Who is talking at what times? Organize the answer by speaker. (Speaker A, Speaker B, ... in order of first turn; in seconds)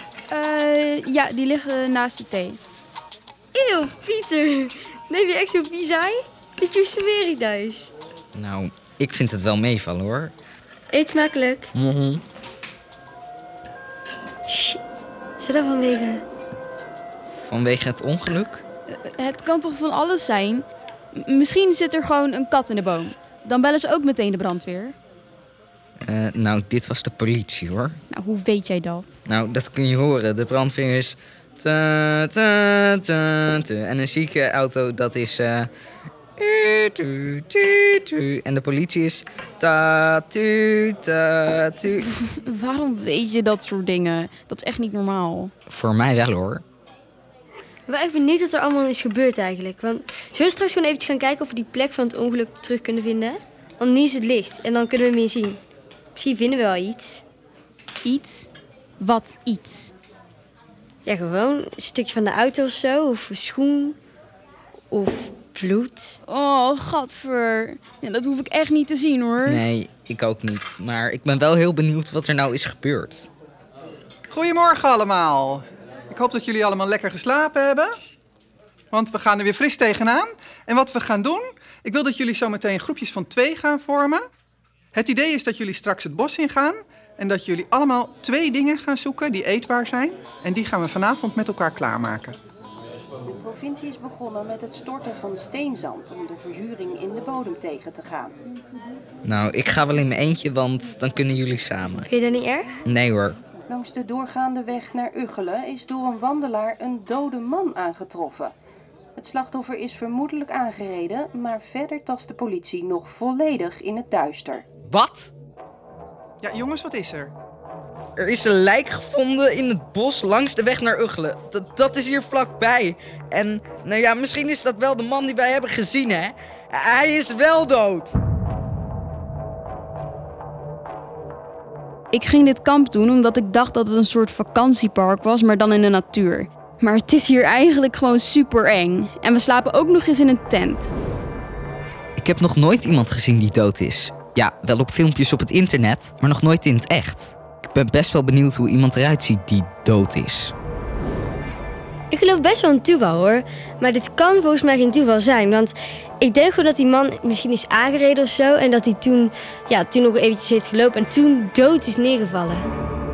Speaker A: 0.3-2.6, 18.9-24.9, 28.1-29.2, 42.2-45.5, 58.0-59.9, 66.2-69.6, 132.1-140.9
Speaker B: 3.5-7.9, 10.9-11.7, 14.5-14.8, 15.4-16.2, 47.9-55.6, 56.1-57.2, 61.0-64.0, 64.9-66.2, 102.0-102.7, 152.1-162.7
Speaker C: 8.3-10.3, 11.7-12.2, 17.3-18.6, 26.0-28.0, 29.2-35.7, 36.4-42.0, 45.7-46.6, 69.5-73.3, 99.2-102.1, 102.8-103.4, 114.9-115.3, 118.2-128.2, 142.2-150.5
Speaker D: 74.3-77.9, 78.9-84.2, 84.9-92.3, 116.4-117.3
Speaker E: 93.3-98.3, 103.7-108.5, 109.2-114.6